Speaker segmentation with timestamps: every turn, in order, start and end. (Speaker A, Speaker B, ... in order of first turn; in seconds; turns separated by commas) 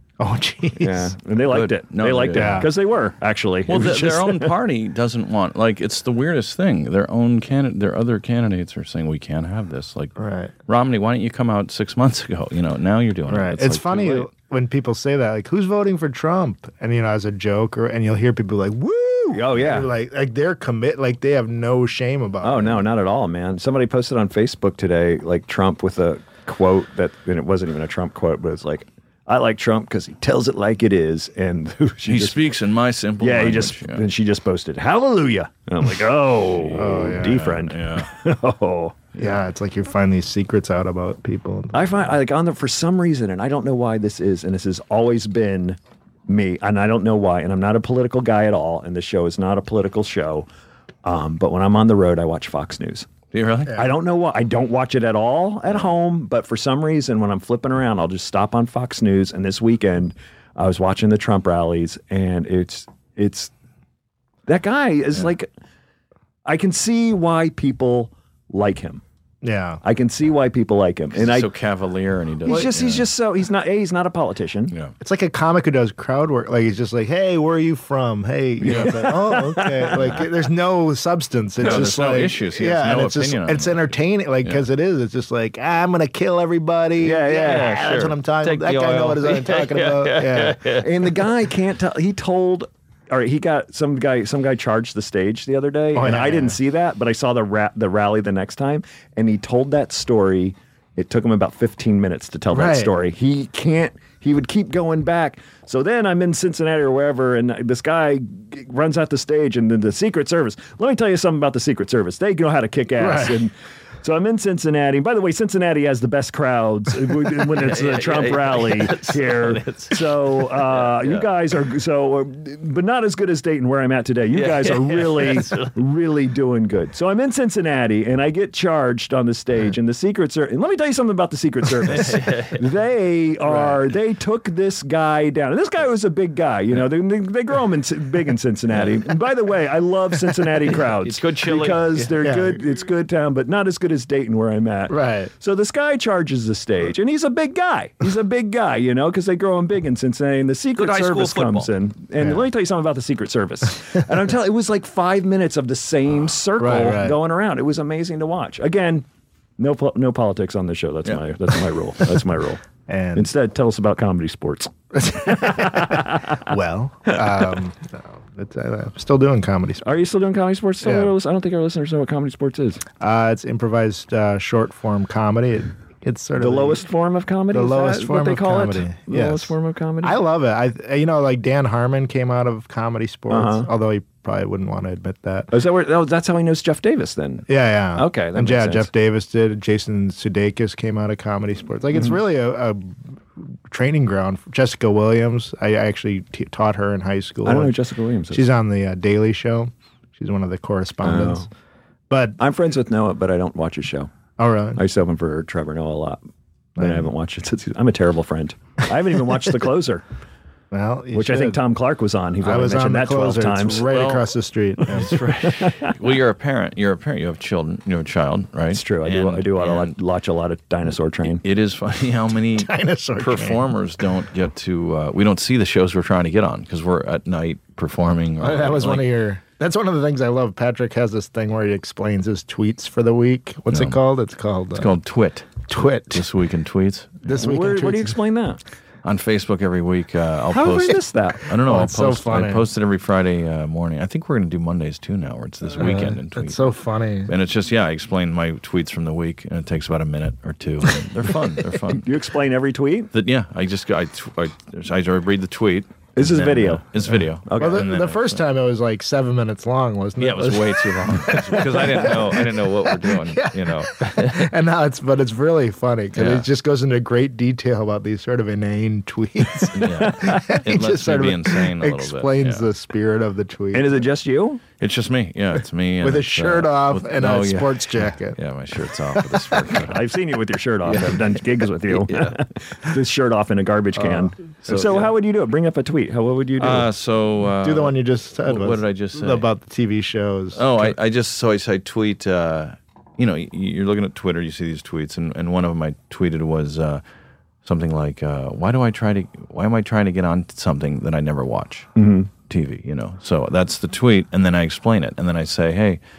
Speaker A: 0.2-1.1, Speaker B: 0.8-4.5, Speaker C: 1.5-2.7, Speaker A: 2.3-2.7, Speaker C: 3.6-10.1, Speaker A: 10.2-10.5, Speaker C: 10.7-14.3, Speaker A: 13.3-22.9, Speaker B: 19.3-19.9, Speaker B: 22.4-32.4, Speaker C: 32.0-34.0, Speaker B: 33.2-39.0, Speaker C: 36.5-38.1, Speaker A: 36.7-37.5, Speaker C: 39.1-39.4, Speaker A: 39.2-42.1, Speaker B: 41.7-50.5, Speaker B: 51.0-53.1, Speaker C: 53.3-53.8, Speaker B: 53.7-63.5, Speaker B: 64.5-65.5, Speaker B: 66.4-69.0, Speaker A: 69.4-69.8, Speaker B: 69.8-71.5, Speaker C: 71.1-73.1, Speaker B: 72.4-74.7, Speaker A: 75.0-90.6, Speaker B: 78.6-80.2, Speaker C: 78.6-79.1, Speaker C: 81.6-84.6, Speaker B: 87.0-88.0, Speaker C: 87.3-91.1, Speaker B: 90.7-159.1, Speaker A: 95.9-96.6, Speaker A: 102.5-102.9, Speaker A: 113.0-113.4, Speaker C: 117.5-121.3, Speaker C: 124.3-125.7, Speaker C: 131.8-132.6, Speaker C: 140.7-142.1, Speaker A: 142.2-142.6, Speaker A: 144.9-145.3, Speaker C: 150.8-151.7, Speaker A: 152.2-152.4, Speaker A: 156.6-157.2, Speaker B: 159.6-162.6, Speaker A: 162.9-163.3, Speaker B: 163.2-166.4, Speaker A: 165.0-169.8, Speaker B: 169.8-172.8, Speaker A: 170.8-171.1, Speaker A: 173.0-176.8, Speaker B: 176.4-180.2, Speaker A: 177.5-185.5, Speaker B: 183.3-183.7, Speaker B: 185.5-188.9, Speaker A: 187.5-197.7, Speaker B: 197.4-198.5, Speaker A: 198.3-201.5, Speaker B: 201.0-201.5, Speaker A: 202.1-202.4, Speaker B: 202.4-204.1, Speaker A: 204.4-204.8, Speaker B: 204.8-206.2, Speaker A: 206.8-207.0, Speaker B: 206.8-210.0, Speaker A: 210.7-211.6, Speaker B: 211.1-213.9, Speaker A: 212.4-215.2, Speaker C: 213.8-214.3, Speaker C: 214.9-219.9, Speaker B: 215.6-215.9, Speaker B: 218.7-221.4, Speaker C: 221.2-229.1, Speaker A: 222.6-223.7, Speaker A: 228.4-234.9, Speaker C: 233.7-234.0, Speaker C: 234.8-237.5, Speaker A: 235.7-236.2, Speaker A: 237.2-238.2, Speaker B: 237.4-238.6, Speaker C: 239.0-246.7, Speaker B: 240.5-241.5, Speaker A: 241.6-242.7, Speaker A: 245.7-247.3, Speaker C: 247.3-252.1, Speaker B: 251.9-253.1, Speaker C: 253.1-258.4, Speaker B: 256.1-256.9, Speaker B: 257.4-257.9, Speaker A: 257.6-262.4, Speaker C: 260.2-264.5, Speaker B: 261.3-262.3, Speaker A: 263.1-274.0, Speaker C: 266.1-266.5, Speaker C: 269.7-272.7, Speaker B: 269.8-270.4, Speaker B: 273.7-274.6, Speaker C: 274.8-280.0, Speaker A: 276.0-278.4, Speaker A: 279.3-279.7, Speaker B: 279.8-286.9, Speaker C: 280.8-281.2, Speaker C: 281.9-282.4, Speaker C: 284.1-285.1, Speaker C: 286.6-289.5, Speaker A: 287.6-290.9, Speaker C: 290.5-297.0, Speaker C: 297.6-301.9, Speaker B: 301.9-302.3, Speaker C: 302.4-306.0